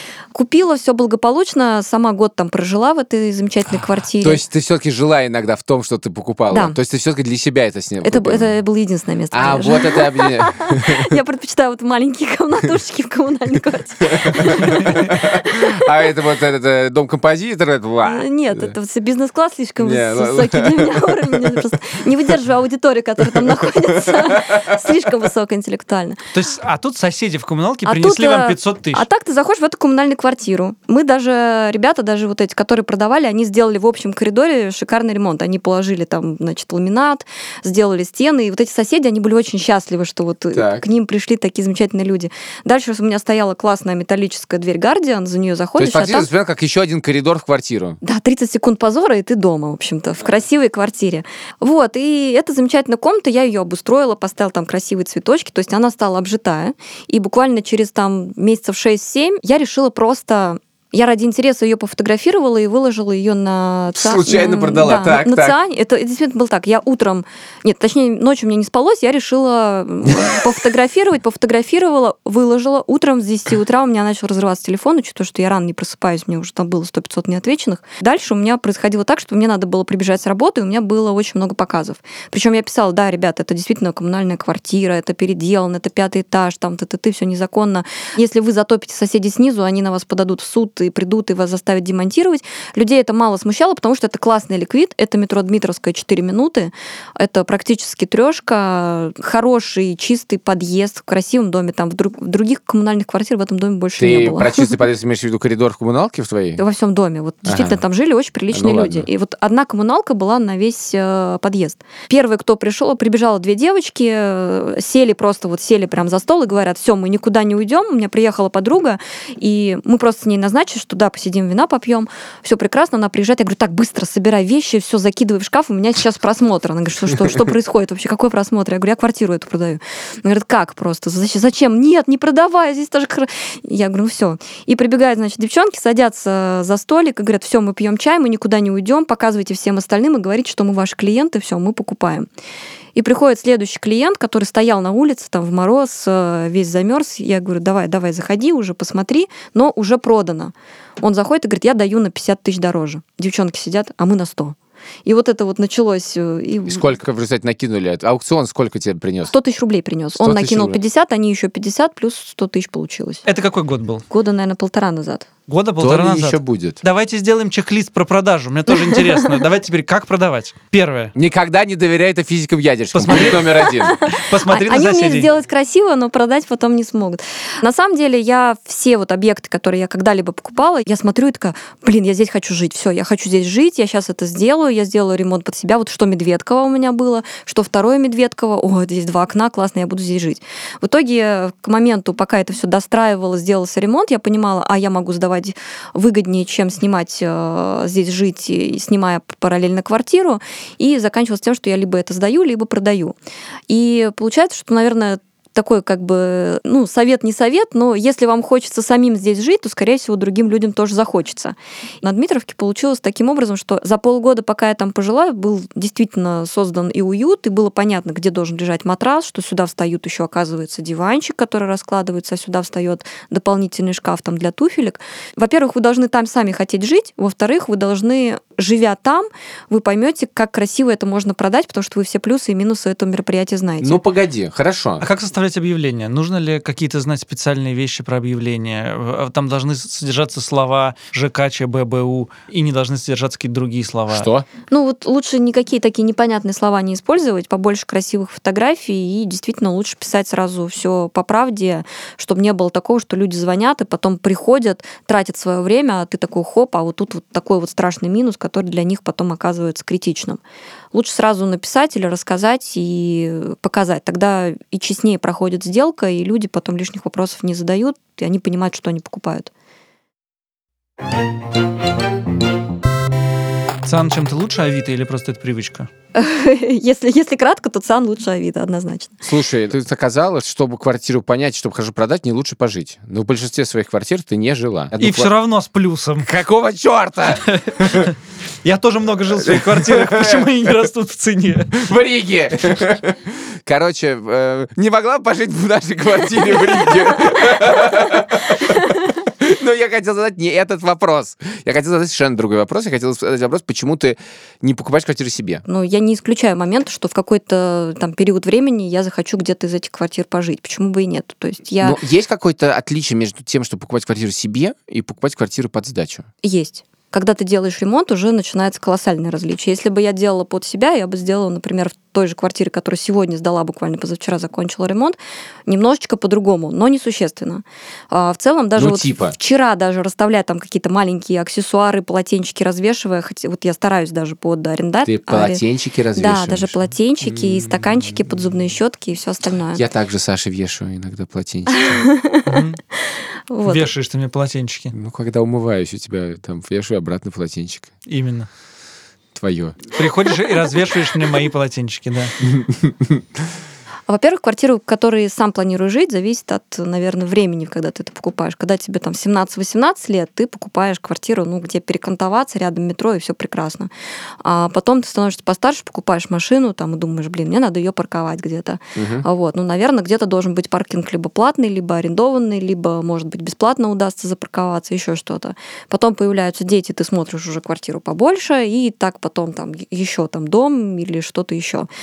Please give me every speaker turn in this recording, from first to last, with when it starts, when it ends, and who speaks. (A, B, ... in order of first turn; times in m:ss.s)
0:00.3-0:04.4 A
0:04.2-0:08.5 B
0:06.5-0:06.8 A
0:08.0-0:15.8 A
0:09.3-0:11.1 B
0:14.1-0:18.7 B
0:18.0-0:26.3 A
0:19.8-0:21.7 B
0:23.3-0:25.0 B
0:26.3-0:29.1 C
0:27.8-0:46.3 A
0:40.5-0:40.8 B
0:45.8-0:48.0 B
0:48.0-1:44.8 A
1:04.0-1:05.6 B
1:44.0-1:46.6 B
1:46.6-2:22.3 A
1:47.4-1:47.8 B
1:48.5-1:49.1 B
2:23.0-2:36.8 A
2:36.7-2:39.3 B
2:39.3-2:43.2 A
2:40.2-2:40.8 B
2:43.3-2:44.1 C
2:44.1-2:45.3 A
2:45.5-2:51.1 C
2:45.8-2:46.8 B
2:51.2-2:54.0 B
2:52.9-2:55.3 C
2:53.6-3:23.2 A
3:23.7-3:54.0 A
3:53.8-3:55.1 B
3:55.0-4:04.3 C
4:04.1-4:04.5 B
4:04.7-4:20.4 A
4:20.9-4:29.5 A
4:33.8-4:35.9 C
4:36.2-4:39.2 A
4:39.2-4:45.3 B
4:45.0-4:46.3 C
4:46.2-4:48.1 B
4:47.5-4:51.9 C
4:49.3-4:50.9 B
4:51.7-5:05.6 B
5:05.7-5:12.0 A
5:11.8-5:16.3 B
5:16.4-5:35.6 A
5:28.8-5:29.4 B
5:35.0-5:38.3 B
5:36.2-5:39.8 A
5:39.7-5:42.0 B
5:41.7-5:43.9 A
5:42.5-5:42.8 C
5:43.7-5:45.0 C
5:44.9-5:47.9 B
5:48.1-5:48.5 C
5:49.4-5:49.9 B
5:50.0-5:52.3 C
5:52.5-5:53.4 B
5:54.1-6:03.9 A
6:04.4-6:21.9 A
6:09.0-6:09.3 B